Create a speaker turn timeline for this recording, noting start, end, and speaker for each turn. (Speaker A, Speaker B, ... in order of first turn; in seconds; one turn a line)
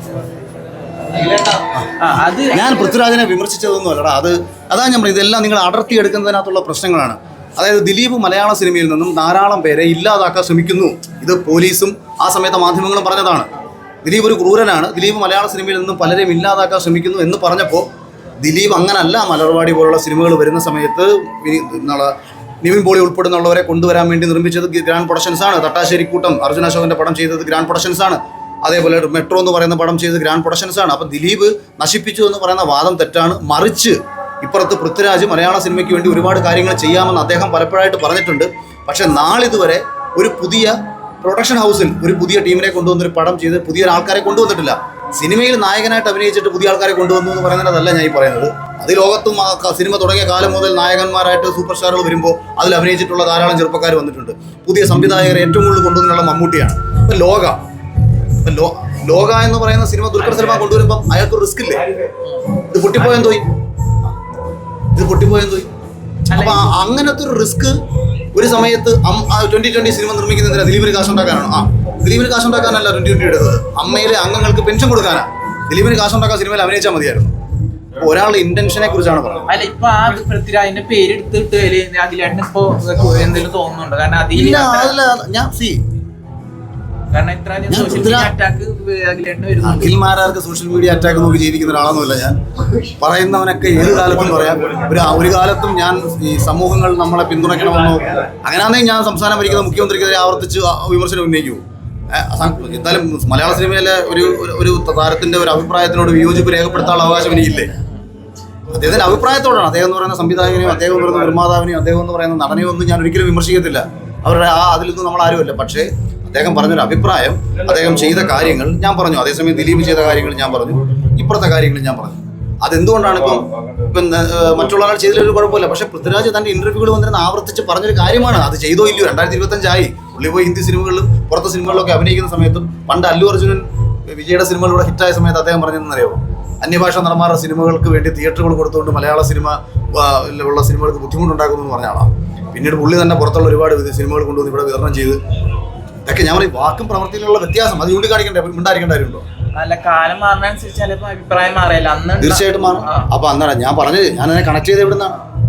Speaker A: 1.2-1.9
Speaker B: 2.0-2.6
Speaker A: 2.5-13.5
Speaker A: 14.0-17.9
Speaker A: 18.4-57.6
Speaker A: 58.4-61.9
Speaker A: 62.7-63.5
Speaker A: 64.9-65.7
Speaker B: 66.3-66.7
Speaker A: 66.3-67.8
Speaker A: 68.3-77.3
Speaker A: 78.0-79.5
Speaker B: 79.5-85.0
Speaker A: 84.3-85.8
Speaker B: 87.1-90.0
Speaker A: 87.7-88.3
Speaker A: 89.6-107.7
Speaker A: 108.7-145.2
Speaker A: 146.1-149.2
Speaker B: 149.5-153.1
Speaker A: 152.2-155.2